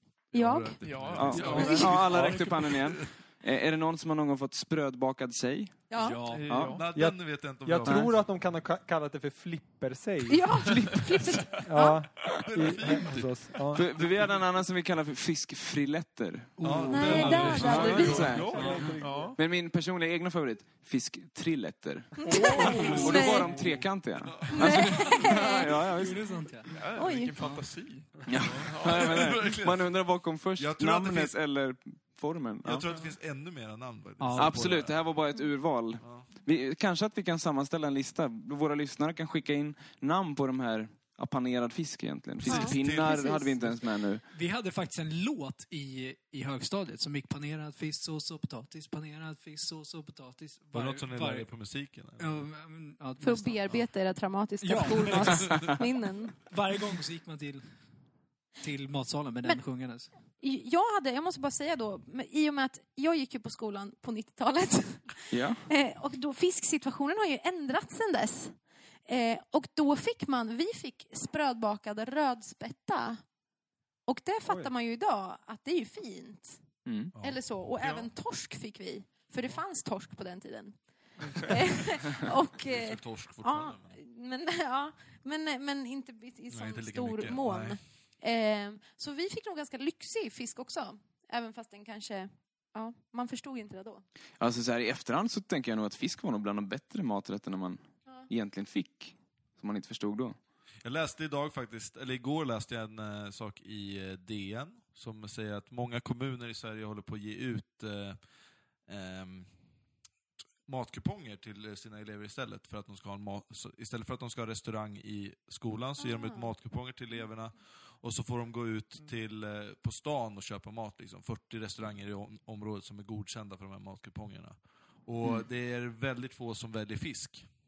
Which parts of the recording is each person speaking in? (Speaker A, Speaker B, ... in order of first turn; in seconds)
Speaker A: 0.3-3.1, 6.6-8.1, 12.4-14.3, 16.6-18.8, 24.3-25.2, 28.4-30.1, 30.6-31.4, 32.6-35.1, 36.0-36.3, 42.4-43.8, 50.7-52.3, 77.1-77.4, 82.7-84.0, 86.5-87.8, 100.8-108.2, 108.9-109.5, 110.7-127.5
Speaker B: 0.3-0.8, 1.4-1.8, 5.9-6.2, 10.3-12.0, 16.9-18.5, 22.2-23.6, 24.5-25.7, 27.0-27.3, 42.5-43.4, 53.2-56.4, 60.4-68.6, 69.1-73.2, 74.1-76.6, 77.2-80.8, 81.3-94.0, 116.0-116.5
Speaker C: 0.8-1.9, 6.3-6.9, 17.7-19.4, 22.2-23.8, 26.7-29.2, 32.7-33.1, 77.8-78.1
Speaker D: 1.1-5.9, 6.5-6.8, 7.8-8.1, 13.7-18.7, 19.4-26.3, 28.3-32.8, 34.4-44.2, 65.3-65.6, 76.9-77.1, 94.4-100.4, 125.2-125.5
Speaker E: 1.3-2.5, 6.9-10.9, 11.6-13.8, 17.6-19.4
Speaker F: 6.0-6.5, 25.4-26.7, 34.2-34.6, 44.3-51.5, 52.2-53.9, 54.6-55.8, 56.5-57.6, 58.6-60.1